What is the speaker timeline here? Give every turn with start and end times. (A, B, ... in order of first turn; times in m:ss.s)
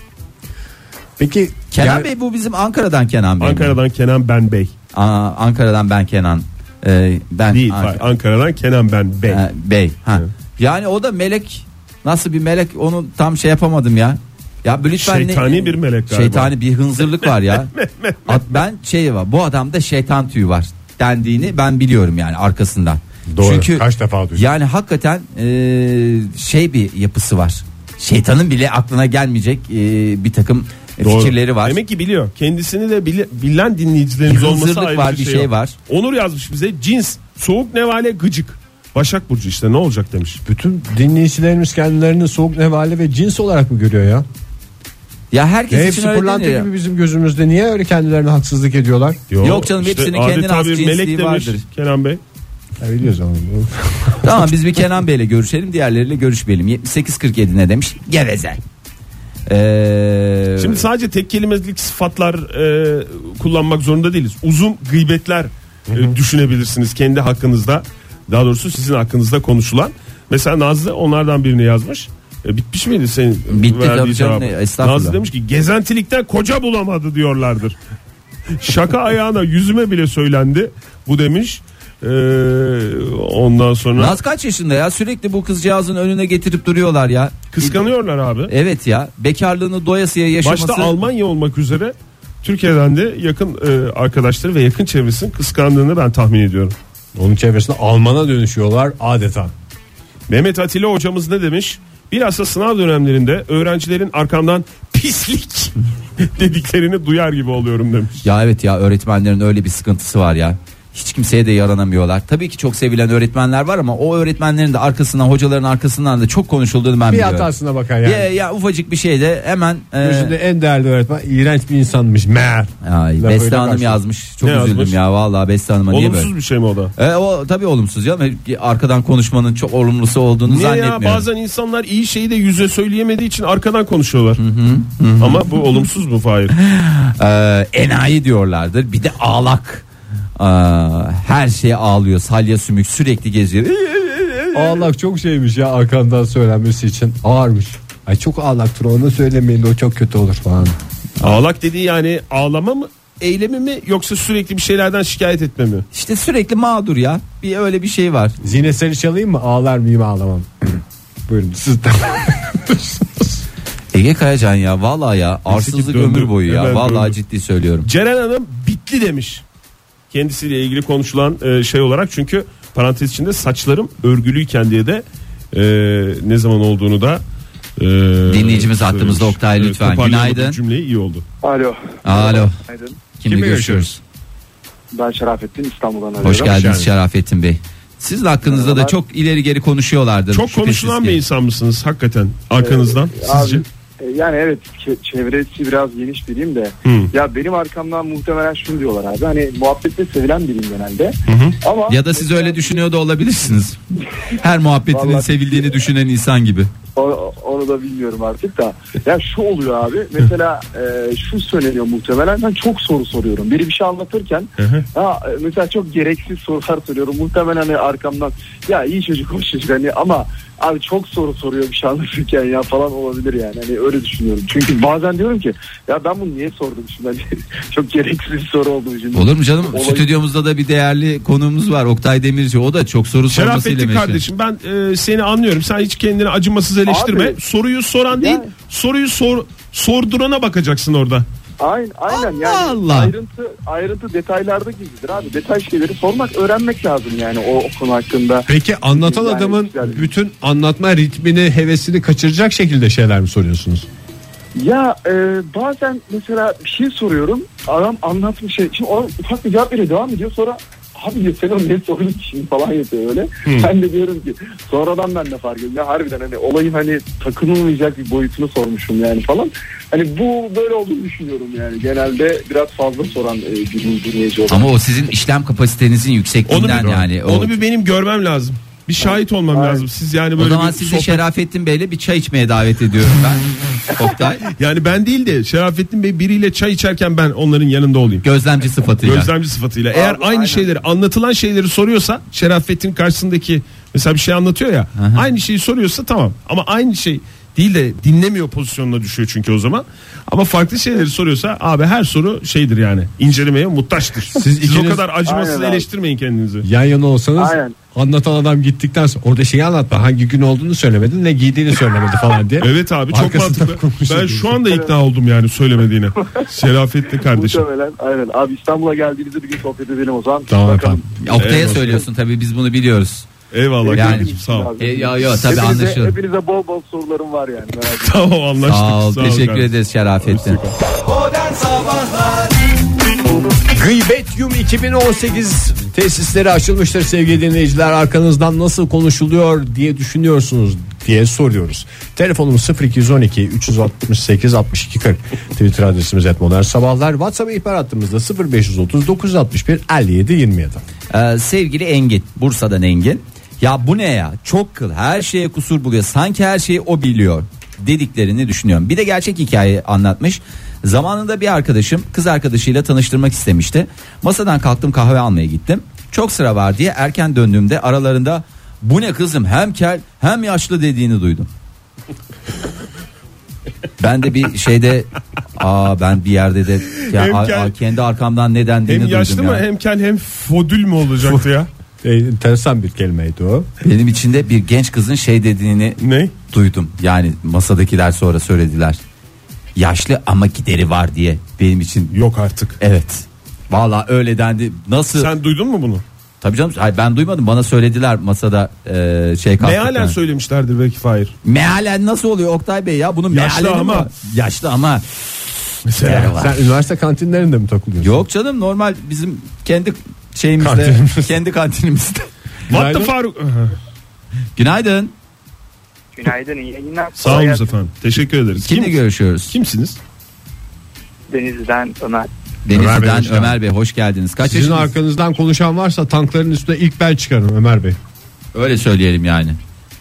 0:01.2-0:02.1 A
0:01.7-0:03.8 B
0:03.4-0:04.7 C
0:04.9-0:08.0 B
0:07.5-0:09.4 C
0:09.3-0:17.7 B
0:15.0-0:18.6 C
0:18.3-0:31.8 B
0:23.3-0:24.5 A
0:31.0-0:40.4 C
0:34.3-0:35.8 B
0:40.5-0:44.3 A
0:45.3-0:46.7 B
0:45.7-0:49.2 A
0:49.3-0:52.2 C
0:49.4-0:51.6 B
0:52.8-0:54.5 A
0:54.2-0:58.6 B
0:59.5-1:00.8 B
1:00.6-1:17.8 C
1:13.5-1:15.2 B
1:18.6-1:24.2 C
1:24.0-1:27.8 B
1:27.5-1:28.5 C
1:28.5-1:31.0 B
1:30.4-1:36.8 C
1:37.2-1:39.5 A
1:40.3-1:48.2 C
1:48.2-1:57.5 B
1:57.1-1:58.3 A
1:58.0-2:00.4 B
2:00.0-2:04.0 A
2:02.8-2:06.3 B
2:04.4-2:05.0 C
2:05.9-2:06.9 C
2:07.0-2:11.3 B
2:10.5-2:14.4 C
2:14.4-2:15.5 B
2:15.2-2:16.5 C
2:16.6-2:19.8 B
2:20.4-2:24.8 B
2:24.5-2:30.8 A
2:31.2-2:35.8 C
2:35.9-2:38.4 B
2:38.4-2:43.4 A
2:43.9-2:47.9 B
2:45.5-2:47.2 C
2:47.8-2:49.4 C
2:50.1-2:57.2 C
2:57.8-3:01.2 C
2:58.3-3:00.6 B
3:01.4-3:03.0 D
3:02.0-3:02.6 B
3:03.2-3:04.0 B
3:03.2-3:03.9 A
3:04.9-3:06.8 D
3:06.2-3:11.2 B
3:06.5-3:06.8 A
3:08.4-3:09.0 D
3:10.3-3:13.6 C
3:12.6-3:22.8 D
3:16.8-3:17.1 C
3:21.3-3:21.6 C
3:21.9-3:23.8 B
3:24.4-3:26.7 B
3:24.9-3:25.7 D
3:27.0-3:50.1 D
3:34.6-3:34.9 C
3:49.1-3:54.2 B
3:53.3-4:01.3 C
3:56.9-3:57.4 D
3:58.2-3:58.4 D
4:01.6-4:10.1 D
4:02.1-4:03.1 B
4:08.5-4:13.9 A
4:14.6-4:34.7 D
4:34.5-4:37.6 B
4:36.5-4:41.2 C
4:39.0-4:39.9 D
4:40.4-4:44.5 B
4:44.6-4:48.2 C
4:48.2-4:49.3 B
4:49.0-5:06.7 C
4:49.9-4:50.8 D
4:55.0-4:55.3 B
5:04.4-5:05.0 A
5:05.2-5:05.9 D
5:06.6-5:14.6 A
5:07.4-5:07.8 D
5:12.6-5:17.6 C
5:14.7-5:14.9 D
5:17.2-5:21.0 D
5:20.5-5:21.0 A
5:21.2-5:23.3 B
5:21.4-5:22.0 C
5:23.5-5:24.8 C
5:23.8-5:28.2 D
5:24.0-5:26.2 B
5:28.0-5:29.7 C
5:28.7-5:30.6 B
5:30.2-5:30.7 C
5:31.5-5:32.2 B
5:33.7-5:50.8 A
5:51.1-6:11.5 B
6:14.0-6:19.6 B
6:17.0-6:17.7 C
6:18.9-6:21.7 C
6:22.0-6:23.7 A
6:23.8-6:29.0 B
6:26.0-6:26.3 C
6:29.8-6:32.1 B
6:32.1-6:32.8 C
6:32.8-6:35.3 B
6:35.2-6:36.0 C
6:36.4-6:40.2 B
6:39.6-6:41.3 C
6:41.4-6:46.6 B
6:43.3-6:44.1 C
6:45.9-6:46.3 C
6:46.1-6:48.2 A
6:48.0-6:52.3 B
6:50.6-6:51.3 A
6:52.7-6:53.1 A
6:52.7-6:53.8 C
6:54.6-6:55.1 B
6:56.2-6:57.7 E
6:57.2-7:00.0 C
6:58.6-6:59.6 B
7:01.3-7:02.3 E
7:02.6-7:04.9 B
7:02.7-7:03.6 A
7:04.4-7:08.0 A
7:08.6-7:09.6 B